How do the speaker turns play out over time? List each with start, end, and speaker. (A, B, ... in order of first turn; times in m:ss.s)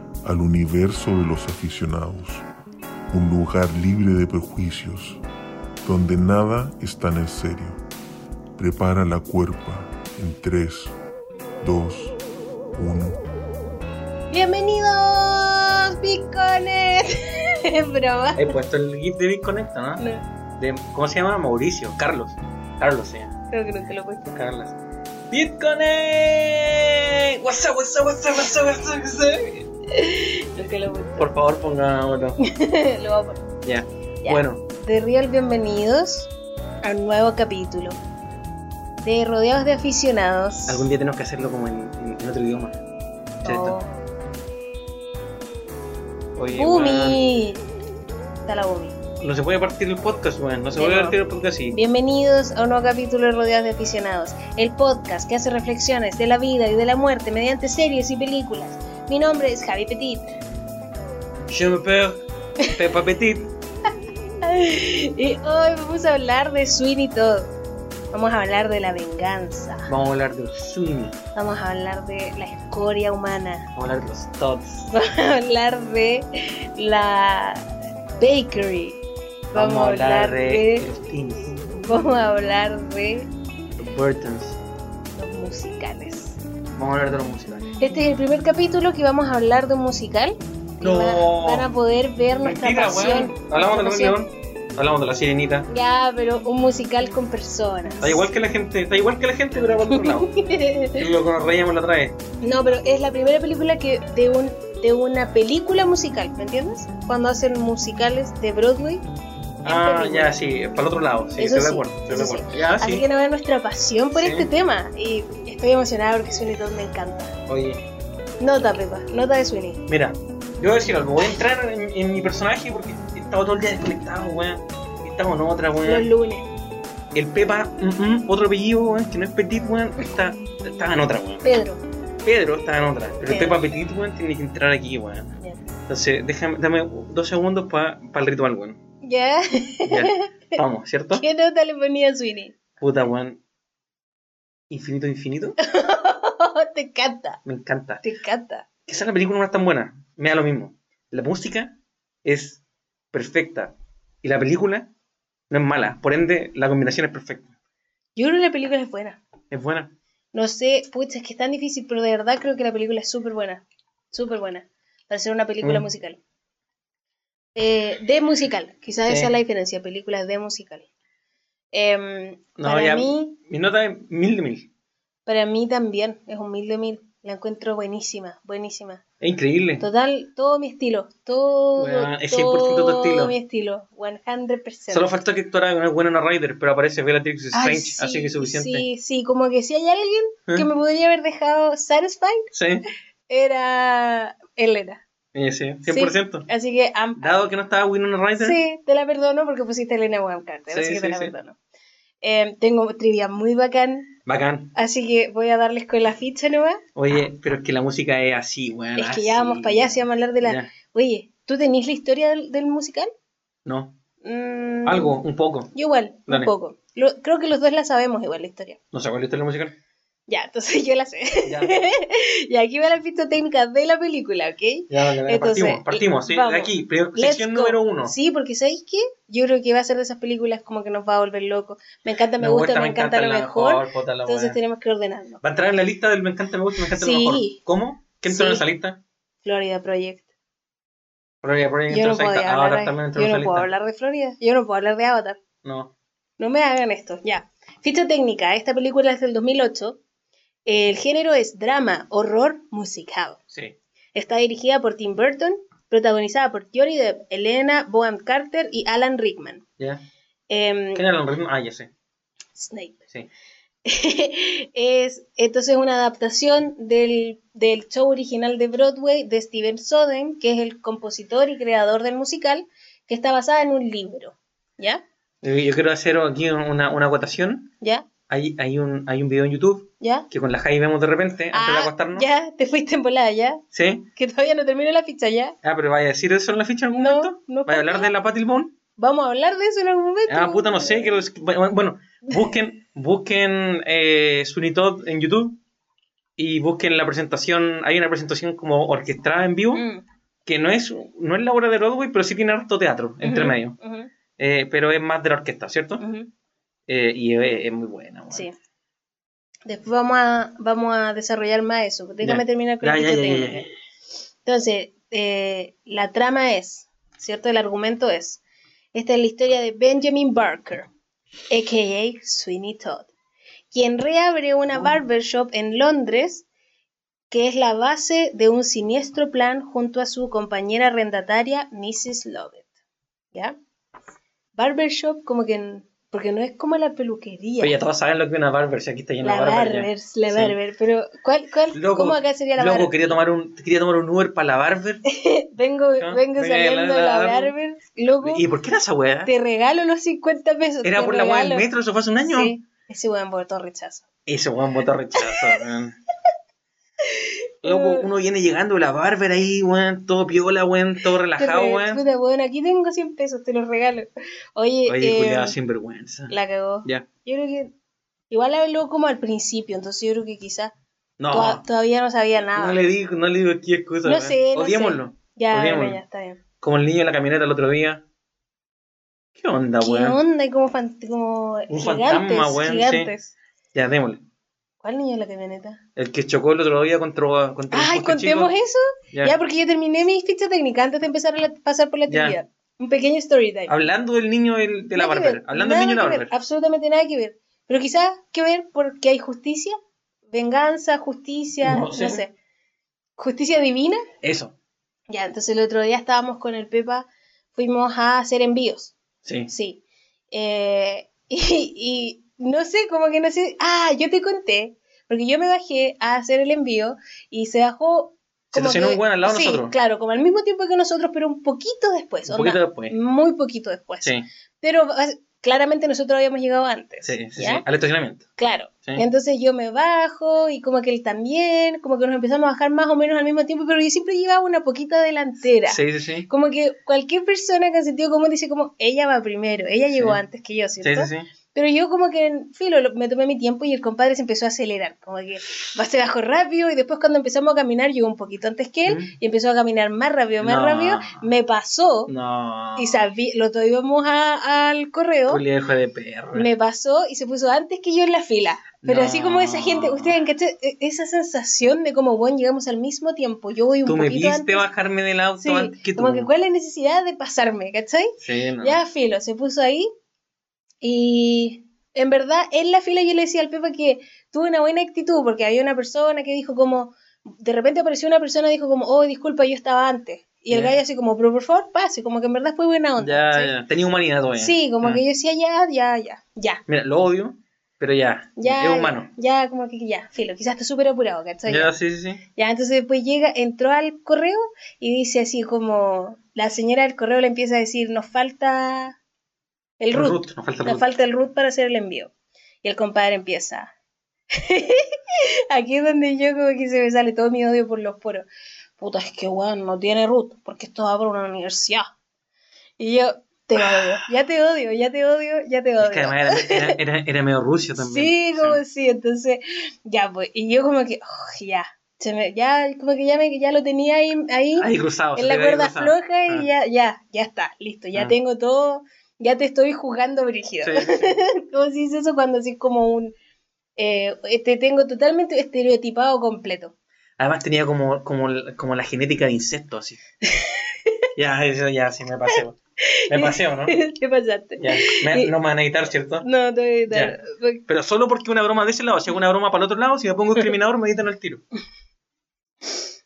0:00.2-0:02.5 A
0:03.1-0:05.2 A
0:05.8-0:07.8 A
0:08.6-0:11.0 A
0:11.6-0:12.2 A
0:12.7-0:13.2 A
0:14.3-0:18.6 B
0:18.4-0:20.0 C
0:20.0-0:20.2 B
0:20.6-0:23.4 C
0:23.5-0:24.4 B
0:24.4-0:24.8 C
0:25.3-0:29.7 C
0:29.9-0:31.3 B
0:31.2-0:32.4 C
0:32.4-0:33.4 B
0:33.6-0:34.6 C
0:34.2-0:36.3 B
0:36.8-0:38.0 B
0:39.0-0:40.8 B
0:40.7-0:42.8 C
0:43.4-0:43.9 B
0:43.4-0:43.8 C
0:46.4-0:47.2 C
0:46.5-0:47.6 B
0:48.5-0:49.0 B
0:49.2-0:51.8 C
0:50.7-0:51.2 B
0:51.7-1:00.3 B
1:01.5-1:02.2 C
1:02.7-1:03.5 C
1:04.4-1:07.5 B
1:08.1-1:09.9 B
1:09.9-1:11.2 C
1:11.4-1:13.7 B
1:13.8-1:14.9 C
1:14.9-1:19.0 B
1:19.5-1:20.9 B
1:19.5-1:21.6 C
1:21.8-1:23.3 B
1:23.8-1:24.6 C
1:25.2-1:26.4 B
1:26.8-1:27.7 C
1:27.8-1:34.2 B
1:30.8-1:31.7 C
1:32.4-1:35.7 C
1:35.7-1:38.2 B
1:38.0-1:40.3 C
1:39.9-1:41.0 B
1:41.0-1:42.2 C
1:42.4-1:49.0 B
1:49.6-1:53.0 C
1:49.6-1:50.4 B
1:51.4-1:57.4 B
1:54.2-1:54.5 C
1:57.5-1:57.8 C
1:58.4-1:59.8 B
1:59.9-2:06.1 C
2:05.8-2:06.5 B
2:07.1-2:11.4 C
2:11.4-2:11.8 B
2:12.2-2:15.3 C
2:13.3-2:13.6 B
2:15.9-2:18.8 C
2:19.0-2:20.2 B
2:19.9-2:21.2 C
2:21.2-2:22.6 B
2:22.8-2:23.4 C
2:24.7-2:25.6 C
2:25.6-2:27.4 B
2:27.4-2:28.0 C
2:28.0-2:28.7 B
2:28.9-2:32.6 C
2:33.1-2:34.9 C
2:35.5-2:37.5 C
2:38.2-2:39.2 B
2:39.5-2:39.9 C
2:40.3-2:46.2 B
2:47.6-2:50.9 B
2:51.7-2:53.4 B
2:52.6-2:54.7 C
2:55.3-2:59.0 B
2:59.2-2:59.8 C
2:59.8-3:05.1 B
3:01.8-3:03.4 C
3:04.9-3:08.9 C
3:07.5-3:12.5 B
3:12.5-3:12.8 C
3:13.3-3:15.0 B
3:15.3-3:16.5 C
3:15.9-3:17.4 B
3:17.2-3:18.6 C
3:18.4-3:21.6 B
3:20.7-3:21.3 C
3:22.2-3:24.2 B
3:24.3-3:24.7 C
3:24.8-3:26.8 B
3:27.0-3:30.7 C
3:29.0-3:33.1 B
3:33.6-3:34.0 C
3:34.2-3:38.8 B
3:34.9-3:35.7 C
3:38.9-3:39.7 C
3:40.3-3:55.4 B
3:41.4-3:41.9 C
3:44.9-3:48.1 C
3:52.4-3:54.6 C
3:55.4-3:59.0 C
3:56.9-3:57.6 B
3:58.3-3:58.6 B
3:59.4-4:00.2 B
4:01.4-4:03.7 C
4:01.9-4:05.4 B
4:05.6-4:05.9 C
4:06.4-4:10.0 B
4:10.7-4:13.4 B
4:14.2-4:19.6 B
4:20.5-4:21.0 B
4:21.0-4:21.9 C
4:22.6-4:23.0 B
4:23.8-4:35.0 B
4:35.4-4:37.7 C
4:37.8-4:38.1 B
4:38.3-4:42.3 C
4:40.0-4:40.3 B
4:41.5-4:43.6 B
4:43.7-4:44.1 C
4:44.2-4:45.6 B
4:45.6-4:48.7 C
4:46.9-4:48.1 B
4:49.0-4:51.1 B
4:50.3-4:55.6 C
4:56.4-4:59.8 C
4:59.7-5:00.0 B
5:00.5-5:03.8 C
5:03.2-5:04.1 B
5:04.4-5:06.0 C
5:06.0-5:06.3 B
5:06.9-5:08.5 C
5:09.7-5:13.7 B
5:12.2-5:13.7 C
5:14.4-5:18.4 B
5:18.9-5:20.9 B
5:21.5-5:23.1 B
5:23.7-5:26.5 B
5:27.3-5:32.7 B
5:34.6-5:37.8 B
5:37.6-5:40.6 C
5:39.2-5:43.2 B
5:41.7-5:45.0 C
5:45.1-5:48.4 B
5:46.0-5:47.5 C
5:48.2-5:49.3 C
5:49.3-5:51.7 B
5:50.8-5:52.5 C
5:52.3-5:54.0 B
5:54.3-5:56.0 C
5:55.2-5:55.6 B
5:57.1-5:58.1 B
5:57.6-6:02.0 C
6:01.4-6:05.6 B
6:04.9-6:06.3 C
6:06.3-6:07.7 B
6:08.3-6:10.7 B
6:11.2-6:11.6 C
6:11.3-6:12.8 B
6:12.6-6:16.0 C
6:14.0-6:16.4 B
6:16.6-6:18.0 C
6:19.4-6:20.2 C
6:19.8-6:23.3 B
6:21.7-6:23.1 C
6:23.7-6:24.2 C
6:24.8-6:25.8 B
6:26.0-6:28.5 C
6:27.7-6:33.7 B
6:32.1-6:32.4 C
6:33.7-6:36.3 C
6:35.0-6:39.8 B
6:40.3-6:42.3 B
6:41.6-6:42.2 C
6:43.2-6:44.0 B
6:44.2-6:44.5 C
6:45.1-6:48.9 B
6:49.2-6:49.5 C
6:49.5-7:07.6 B
6:58.5-6:59.7 C
7:02.3-7:03.0 C
7:07.0-7:08.3 C
7:08.4-7:32.1 B
7:15.7-7:16.3 C
7:19.9-7:20.2 C
7:20.8-7:21.3 C
7:28.9-7:29.1 C
7:30.4-7:31.3 C
7:32.1-7:33.1 C
7:32.8-7:35.4 B
7:35.3-7:36.5 C
7:36.3-7:44.7 B
7:38.8-7:40.2 C
7:43.9-7:46.3 C
7:45.4-7:49.9 B
7:48.2-7:48.8 C
7:50.8-8:03.5 B
8:00.5-8:00.8 C
8:03.0-8:05.0 C
8:04.4-8:06.6 B
8:06.7-8:09.1 C
8:08.4-8:11.7 B
8:11.5-8:12.2 C
8:12.4-8:19.0 B
8:19.8-8:22.1 B
8:19.9-8:20.8 C
8:22.6-8:23.7 B
8:24.4-8:28.3 B
8:28.8-8:31.9 B
8:32.8-8:36.8 B
8:33.6-8:34.0 C
8:35.8-8:38.6 C
8:37.8-8:53.2 B
8:44.6-8:46.5 C
8:50.6-8:51.1 C
8:53.8-8:56.7 B
8:57.2-9:00.0 C
9:00.2-9:01.0 B
9:01.2-9:02.6 C
9:03.0-9:05.3 B
9:03.1-9:03.8 C
9:04.6-9:06.3 C
9:06.2-9:07.6 B
9:06.9-9:11.4 C